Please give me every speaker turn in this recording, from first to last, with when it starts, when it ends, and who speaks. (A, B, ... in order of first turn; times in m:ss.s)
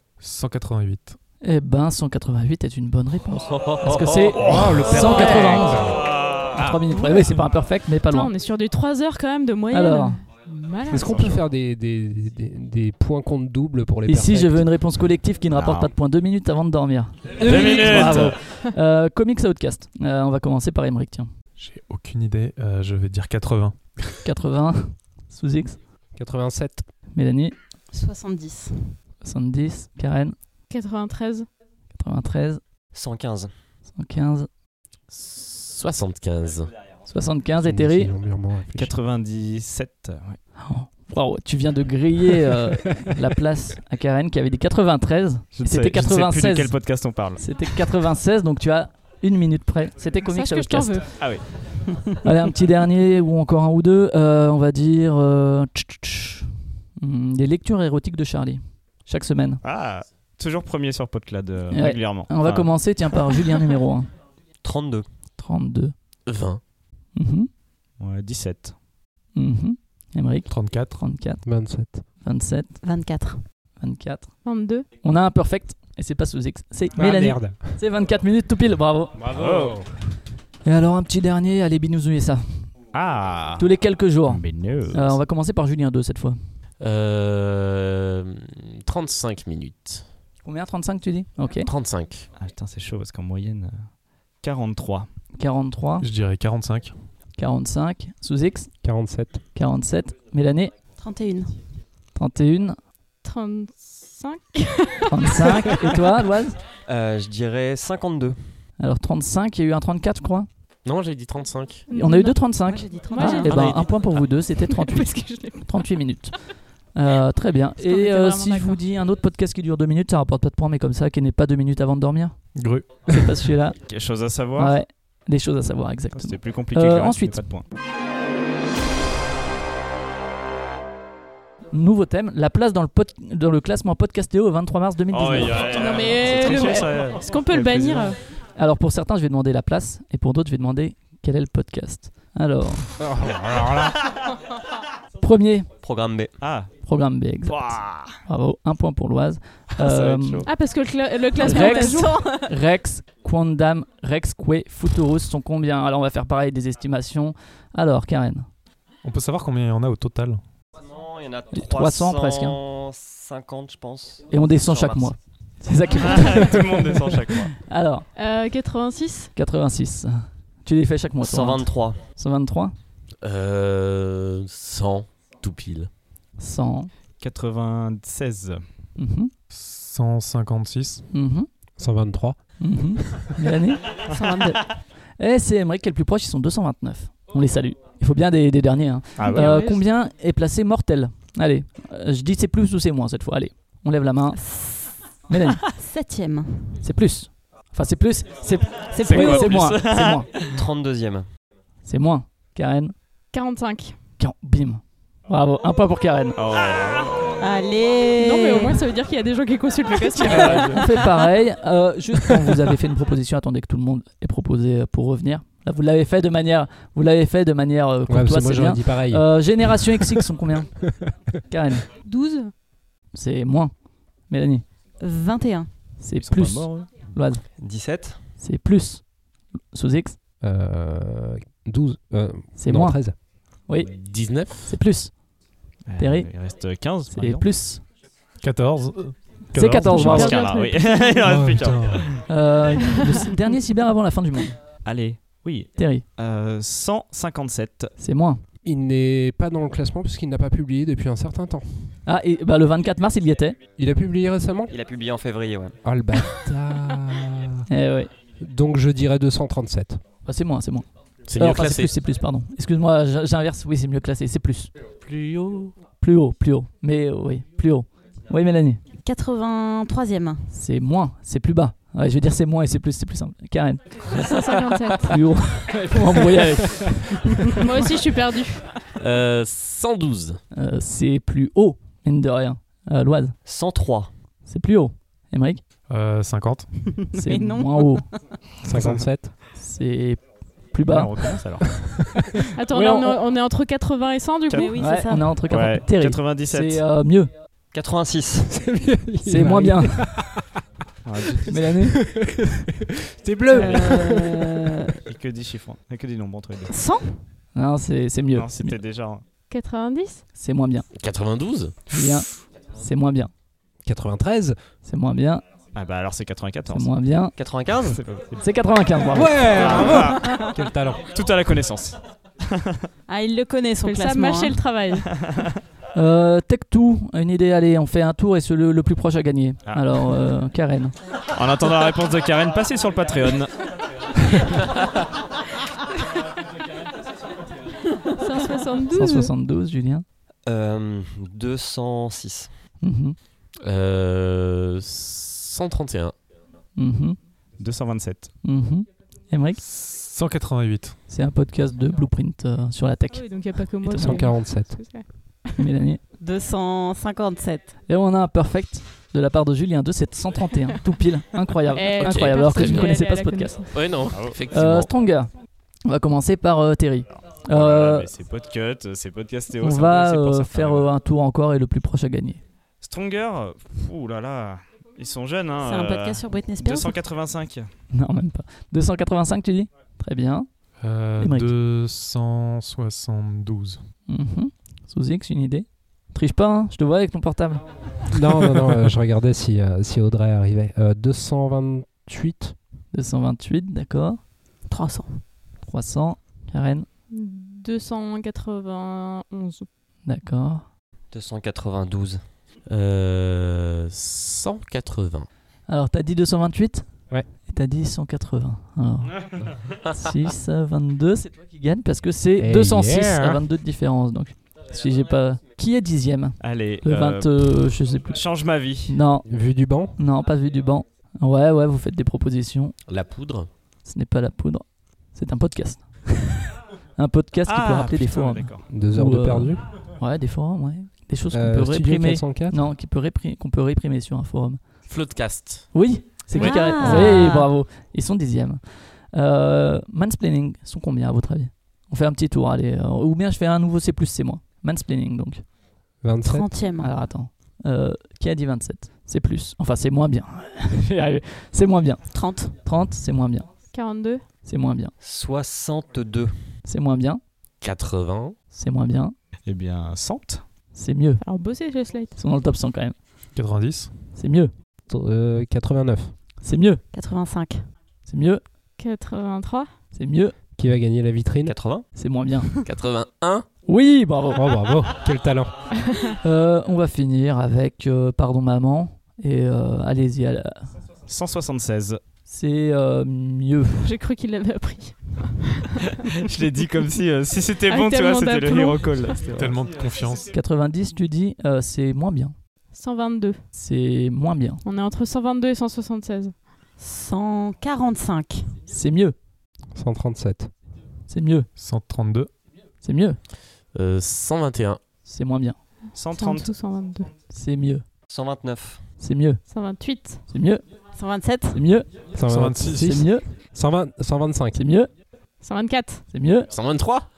0:00.2-0:01.2 A
0:01.4-0:05.8 B
0:04.4-0:06.8 C
0:05.7-0:06.5 D
0:06.5-0:08.3 B
0:07.0-0:07.3 E
0:08.0-0:11.2 E
0:09.7-0:10.2 B
0:10.9-0:14.7 C
0:10.9-0:11.4 D
0:14.0-0:21.3 B
0:15.5-0:15.9 D
0:17.4-0:18.4 D
0:17.4-0:18.3 C
0:17.6-0:18.0 E
0:21.6-0:23.8 A
0:24.2-0:25.8 B
0:26.2-0:26.9 C
0:27.1-0:27.5 B
0:27.9-0:29.0 F
0:29.2-0:30.3 B
0:30.7-0:31.5 E
0:31.9-0:32.6 B
0:32.9-0:33.5 G
0:33.9-0:34.5 B
0:35.1-0:36.7 H
0:37.1-0:38.1 B
0:37.6-0:38.9 C
0:38.7-0:40.4 D
0:40.6-0:46.8 B
0:45.5-0:47.4 D
0:47.4-0:51.3 B
0:50.2-0:51.3 E
0:51.2-0:51.5 D
0:52.2-0:59.6 B
0:59.6-1:02.7 D
1:01.7-1:04.1 B
1:04.6-1:05.0 G
1:05.4-1:05.9 B
1:06.2-1:06.6 H
1:07.1-1:07.5 B
1:08.0-1:08.7 D
1:09.3-1:11.4 B
1:10.5-1:11.0 A
1:11.4-1:12.0 C
1:12.2-1:12.8 B
1:12.8-1:13.4 F
1:13.8-1:19.2 B
1:14.4-1:14.9 E
1:16.9-1:17.8 C
1:19.1-1:19.9 C
1:19.3-1:19.8 D
1:20.6-1:22.7 B
1:22.9-1:23.7 D
1:23.6-1:26.4 B
1:24.3-1:25.2 D
1:26.8-1:30.0 H
1:30.4-1:31.7 B
1:31.6-1:32.3 H
1:32.4-1:33.9 D
1:34.4-1:35.1 D
1:35.4-1:36.1 B
1:36.0-1:36.9 A
1:37.4-1:38.7 B
1:38.8-1:39.4 C
1:39.5-1:40.7 B
1:41.0-1:41.6 F
1:42.1-1:42.8 B
1:43.2-1:45.7 E
1:45.0-1:46.6 B
1:46.9-1:48.4 G
1:48.8-1:50.5 B
1:50.8-1:51.8 H
1:51.9-1:52.5 E
1:51.9-2:03.8 B
1:52.6-1:53.9 F
1:53.0-1:55.9 E
1:53.4-1:53.8 H
1:57.8-1:58.8 E
2:02.5-2:03.1 A
2:03.9-2:04.8 D
2:04.5-2:07.4 B
2:06.1-2:07.6 D
2:11.7-2:15.7 B
2:15.1-2:18.1 D
2:15.6-2:18.2 E
2:18.5-2:22.9 B
2:23.0-2:24.0 C
2:25.2-2:25.7 B
2:25.8-2:26.3 G
2:26.4-2:26.7 D
2:26.8-2:30.5 B
2:27.4-2:28.2 D
2:29.8-2:30.5 D
2:30.4-2:32.2 E
2:31.3-2:32.5 F
2:31.4-2:38.5 B
2:39.0-2:40.4 A
2:40.8-2:45.1 G
2:41.5-2:42.6 B
2:44.3-2:46.6 B
2:46.0-2:47.5 D
2:47.6-2:48.1 B
2:48.1-2:49.3 E
2:49.3-2:52.7 B
2:51.2-2:52.0 G
2:53.2-2:55.9 H
2:56.4-2:56.9 B
2:57.2-2:58.6 D
2:59.0-2:59.3 B
2:59.5-3:01.0 A
3:01.1-3:01.5 B
3:01.8-3:02.4 C
3:02.6-3:03.8 B
3:04.1-3:04.6 F
3:05.2-3:14.5 B
3:09.2-3:09.6 D
3:09.3-3:09.8 E
3:14.3-3:15.1 F
3:15.3-3:15.6 B
3:15.7-3:16.8 F
3:16.8-3:20.3 B
3:18.9-3:19.6 F
3:19.0-3:20.6 D
3:20.5-3:21.2 G
3:21.8-3:22.9 B
3:23.3-3:24.0 E
3:24.2-3:26.4 B
3:26.4-3:27.4 D
3:27.4-3:28.8 F
3:28.2-3:30.8 E
3:30.2-3:30.8 D
3:30.3-3:40.9 B
3:38.1-3:40.2 C
3:41.5-3:41.8 B
3:42.0-3:42.5 E
3:43.1-3:43.7 B
3:44.3-3:44.6 B
3:45.0-3:45.7 F
3:46.0-3:47.4 B
3:46.2-3:46.9 D
3:47.6-3:48.2 G
3:48.4-3:49.1 B
3:49.7-3:50.2 B
3:50.4-3:53.2 C
3:52.6-3:55.2 B
3:53.9-3:54.8 H
3:55.8-3:57.4 D
3:56.0-3:56.4 B
3:57.1-3:57.8 B
3:58.4-4:00.4 A
3:59.5-4:00.4 B
3:59.8-4:01.3 E
4:00.0-4:02.2 D
4:01.2-4:02.1 C
4:02.3-4:04.6 B
4:03.0-4:03.3 E
4:04.8-4:07.9 D
4:05.7-4:06.0 B
4:08.0-4:08.4 B
4:08.6-4:11.9 C
4:12.0-4:13.6 B
4:13.8-4:14.7 C
4:14.7-4:15.8 G
4:15.8-4:17.6 C
4:17.7-4:18.1 B
4:18.4-4:20.0 C
4:20.2-4:24.7 B
4:21.2-4:21.9 H
4:25.0-4:25.7 H
4:25.9-4:28.8 B
4:29.0-4:30.5 F
4:30.5-4:34.2 B
4:34.1-4:35.2 E
4:35.0-4:37.5 B
4:37.6-4:38.7 E
4:39.0-4:40.4 H
4:40.5-4:43.4 B
4:43.4-4:44.1 G
4:44.4-4:45.6 B
4:45.9-4:46.7 A
4:47.0-4:48.2 F
4:47.2-4:48.0 B
4:48.7-4:49.3 C
4:48.7-4:49.0 A
4:49.6-4:51.2 B
4:50.8-4:51.8 D
4:52.2-4:53.2 C
4:52.6-4:54.8 E
4:54.5-4:55.3 F
4:54.8-4:57.3 B
4:55.4-4:56.8 D
4:57.7-4:58.5 G
4:58.4-5:00.5 C
4:59.2-5:00.2 B
5:01.0-5:01.6 D
5:01.5-5:02.1 B
5:01.6-5:02.5 C
5:03.1-5:04.6 C
5:03.5-5:05.0 F
5:05.0-5:06.7 D
5:06.7-5:07.2 F
5:07.5-5:08.8 B
5:08.3-5:09.2 D
5:09.5-5:10.2 E
5:10.3-5:10.9 B
5:10.9-5:11.8 H
5:11.9-5:13.3 B
5:13.8-5:14.6 C
5:14.8-5:15.4 B
5:15.7-5:16.9 D
5:16.7-5:17.3 B
5:17.4-5:18.0 G
5:17.8-5:18.4 D
5:18.4-5:19.5 B
5:19.1-5:21.0 C
5:19.5-5:20.3 D
5:21.1-5:22.0 D
5:22.5-5:22.8 D
5:23.1-5:24.7 F
5:23.8-5:25.1 E
5:25.1-5:25.5 D
5:25.9-5:30.9 B
5:29.7-5:30.0 D
5:31.3-5:33.6 D
5:38.2-5:39.3 E
5:38.9-5:40.0 B
5:40.4-5:42.5 G
5:42.8-5:43.2 B
5:43.6-5:46.1 H
5:46.7-5:47.2 B
5:47.6-5:48.3 D
5:48.4-5:49.6 B
5:49.6-5:51.0 A
5:51.1-5:54.4 B
5:53.1-5:55.5 E
5:53.9-5:54.8 C
5:55.6-5:56.0 B
5:56.2-5:57.8 F
5:57.9-6:03.6 B
6:01.7-6:04.0 E
6:02.0-6:03.0 H
6:03.7-6:04.9 H
6:04.1-6:04.4 D
6:04.5-6:05.3 B
6:05.8-6:08.1 B
6:07.2-6:10.9 D
6:09.6-6:12.4 B
6:12.8-6:17.7 D
6:15.6-6:17.0 F
6:17.9-6:20.5 B
6:20.8-6:23.8 A
6:21.2-6:21.5 B
6:24.1-6:27.6 B
6:28.1-6:32.5 C
6:32.9-6:34.2 B
6:34.6-6:35.2 F
6:35.6-6:36.9 B
6:37.1-6:39.7 E
6:40.0-6:40.6 B
6:41.1-6:42.2 G
6:42.7-6:45.3 H
6:45.7-6:58.2 B
6:52.4-6:53.4 C
6:56.4-6:59.0 D
6:58.9-6:59.3 B
6:59.2-6:59.9 C
7:00.0-7:02.8 B
7:02.9-7:03.5 H
7:03.8-7:06.4 B
7:07.0-7:14.6 B
7:07.5-7:08.6 D
7:08.7-7:09.6 C
7:11.3-7:12.6 C
7:14.9-7:15.7 H
7:15.7-7:25.5 B
7:16.3-7:17.5 F
7:16.8-7:17.1 C
7:26.0-7:26.5 C
7:26.2-7:27.0 F
7:26.8-7:33.7 B
7:32.1-7:32.5 F
7:33.7-7:34.3 E
7:34.4-7:34.9 B
7:35.0-7:36.3 G
7:36.6-7:37.2 B
7:37.6-7:38.4 H
7:38.5-7:39.1 B
7:39.4-7:40.4 D
7:40.7-7:41.2 B
7:41.2-7:42.1 E
7:42.1-7:43.0 B
7:43.3-7:44.0 A
7:44.1-7:44.5 B
7:44.9-7:46.1 C
7:46.4-7:46.8 B
7:46.9-7:47.6 F
7:48.0-7:48.4 B
7:48.8-7:49.7 E
7:49.9-7:50.3 B
7:50.6-7:51.6 C
7:51.4-7:51.8 G
7:51.9-7:52.5 B
7:52.6-7:53.4 H
7:53.7-7:54.5 B
7:54.3-7:55.7 C
7:56.2-8:00.7 B
8:01.1-8:02.0 D
8:02.2-8:03.9 B
8:03.8-8:05.7 E
8:06.2-8:09.6 D
8:07.6-8:09.1 E
8:09.3-8:10.3 A
8:10.3-8:12.4 B
8:12.7-8:13.4 E
8:13.5-8:14.6 B
8:14.6-8:16.4 E
8:16.8-8:18.5 F
8:18.7-8:19.2 B
8:19.7-8:20.5 C
8:21.1-8:21.5 B
8:21.6-8:22.3 A
8:22.8-8:23.2 B
8:23.7-8:24.8 H
8:25.0-8:25.6 B
8:25.9-8:27.1 E
8:25.9-8:26.5 D
8:27.3-8:27.8 B
8:28.1-8:28.9 G
8:29.0-8:29.5 B
8:29.4-8:30.3 E
8:30.3-8:30.7 B
8:30.9-8:31.6 F
8:31.5-8:31.9 B
8:32.1-8:34.6 C
8:32.2-8:33.1 A
8:32.6-8:33.3 B
8:34.5-8:34.9 B
8:35.4-8:36.1 E
8:36.1-8:36.5 B
8:36.5-8:37.1 H